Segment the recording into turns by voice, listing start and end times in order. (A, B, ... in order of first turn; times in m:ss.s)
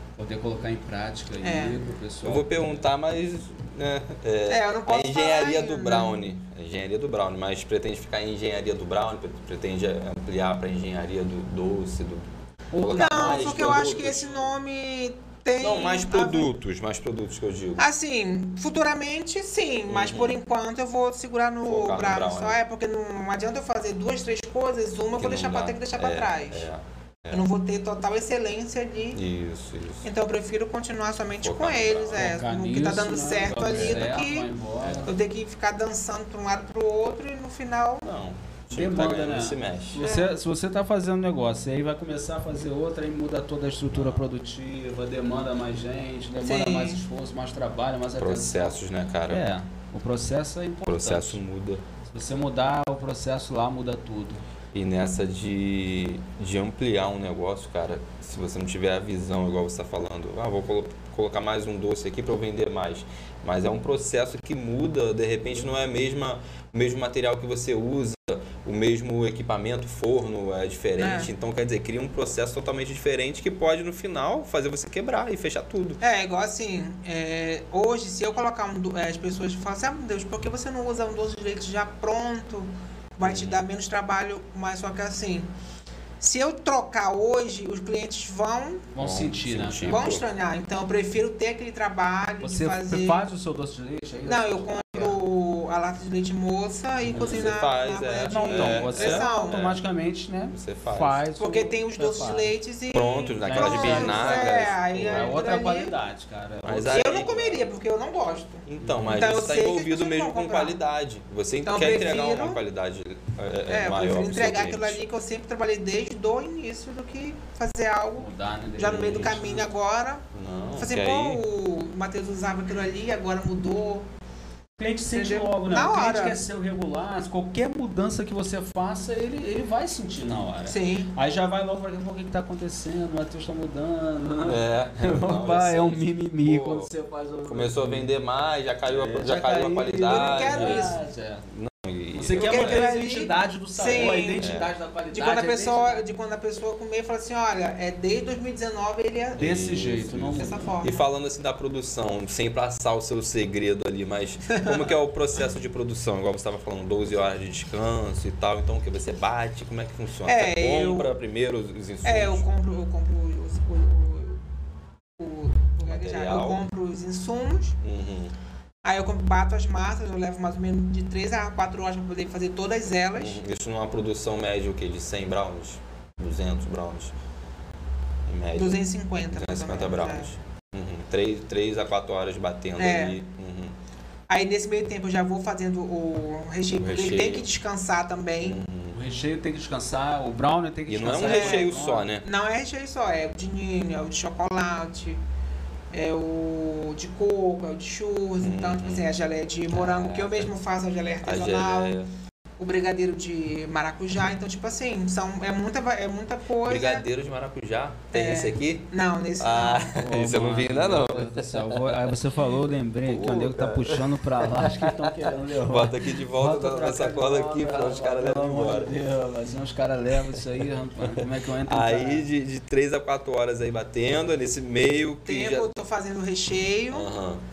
0:00.2-0:02.8 A
0:01.4-0:01.9 B
0:02.2-0:14.5 C
0:04.5-0:06.2 B
0:12.7-0:14.2 A
0:12.9-0:16.5 B
0:15.6-0:17.8 C
0:17.8-0:26.7 B
0:19.9-0:20.4 C
0:21.7-0:22.6 C
0:25.2-0:27.4 C
0:27.3-0:29.2 B
0:29.2-0:30.1 C
0:30.0-0:34.5 B
0:31.4-0:32.3 C
0:32.2-0:35.1 A
0:33.7-0:34.1 C
0:34.8-0:35.1 C
0:35.0-0:38.1 B
0:38.0-0:40.0 C
0:38.7-0:51.4 A
0:40.0-0:40.4 B
0:43.9-0:44.3 C
0:46.4-0:47.0 B
0:48.2-0:49.5 C
0:50.9-0:51.8 C
0:52.1-0:54.4 A
0:54.7-1:16.0 C
1:11.0-1:11.3 B
1:16.0-1:25.5 B
1:23.2-1:23.6 C
1:26.2-1:28.9 B
1:28.9-1:30.0 A
1:29.0-1:30.2 C
1:29.8-1:33.3 B
1:32.4-1:35.2 A
1:34.2-1:39.6 B
1:37.1-1:37.5 A
1:37.1-1:39.8 C
1:38.3-1:42.5 A
1:40.5-1:41.2 C
1:41.4-1:46.0 B
1:42.9-1:45.4 C
1:43.4-1:47.1 A
1:46.6-1:47.7 C
1:46.9-1:50.8 B
1:48.7-1:55.0 C
1:48.8-1:49.3 A
1:51.6-1:52.6 B
1:53.7-2:04.1 B
1:58.2-1:59.7 A
1:58.9-1:59.3 C
2:00.3-2:01.4 C
2:04.8-2:18.1 A
2:05.1-2:06.4 B
2:10.7-2:11.1 B
2:14.4-2:16.9 C
2:17.5-2:21.0 C
2:18.9-2:21.5 A
2:20.0-2:21.0 B
2:21.5-2:22.9 C
2:22.2-2:26.0 A
2:22.4-2:24.5 B
2:23.9-2:24.7 C
2:25.1-2:29.5 B
2:29.4-2:42.5 C
2:29.4-2:30.8 A
2:30.4-2:31.1 B
2:34.5-2:35.0 B
2:40.2-2:41.1 B
2:42.0-2:44.4 B
2:45.2-2:47.8 B
2:45.9-2:46.6 C
2:47.8-2:48.4 C
2:48.8-2:53.4 B
2:53.2-2:57.1 C
2:58.3-3:03.8 C
2:58.6-3:00.4 B
3:02.8-3:03.2 B
3:04.3-3:08.6 B
3:06.8-3:07.5 C
3:08.4-3:09.0 C
3:08.9-3:12.1 A
3:10.9-3:12.2 C
3:11.2-3:11.7 B
3:12.2-3:15.2 B
3:15.9-3:22.0 B
3:18.4-3:19.1 C
3:19.7-3:20.5 C
3:21.2-3:22.1 C
3:22.6-3:27.1 B
3:26.6-3:32.2 C
3:28.1-3:30.0 B
3:29.9-3:42.3 A
3:33.1-3:39.0 C
3:41.0-3:45.7 C
3:45.3-3:47.1 B
3:46.9-3:47.4 C